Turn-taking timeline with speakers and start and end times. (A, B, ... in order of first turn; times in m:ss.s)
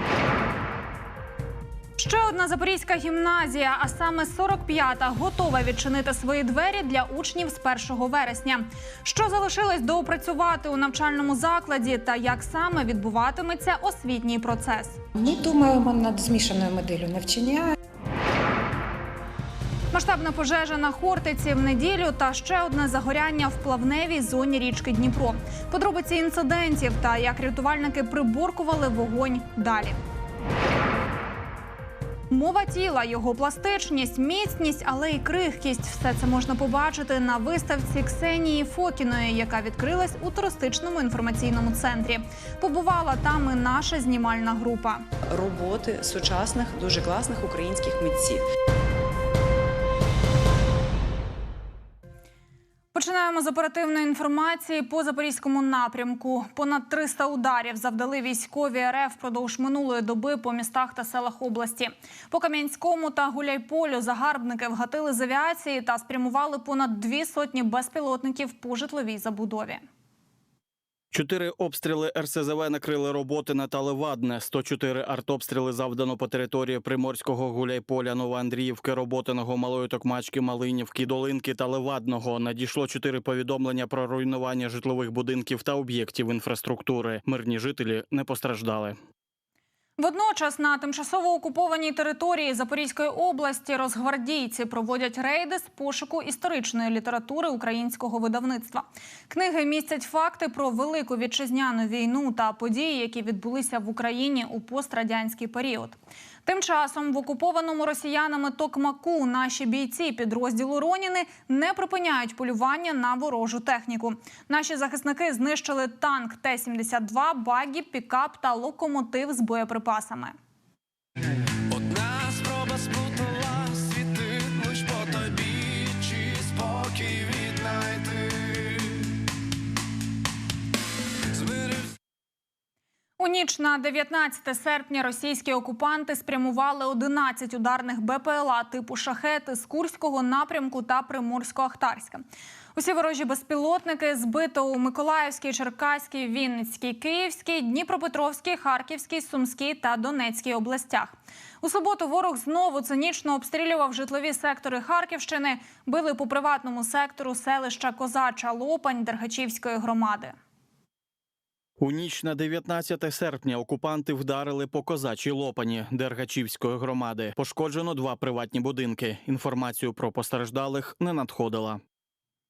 0:02.0-0:15.0 A
0:15.1-0:17.8 B
0:19.9-0:30.0 A
0:32.3-0:45.0 A
0:45.3-0:48.4 C
0:52.9-1:09.8 A
1:11.1-1:29.0 D
1:30.0-2:00.4 A
2:01.7-2:09.1 E
2:11.4-2:11.8 E
2:13.2-2:22.2 A
2:22.8-2:40.4 A
2:41.8-2:51.8 D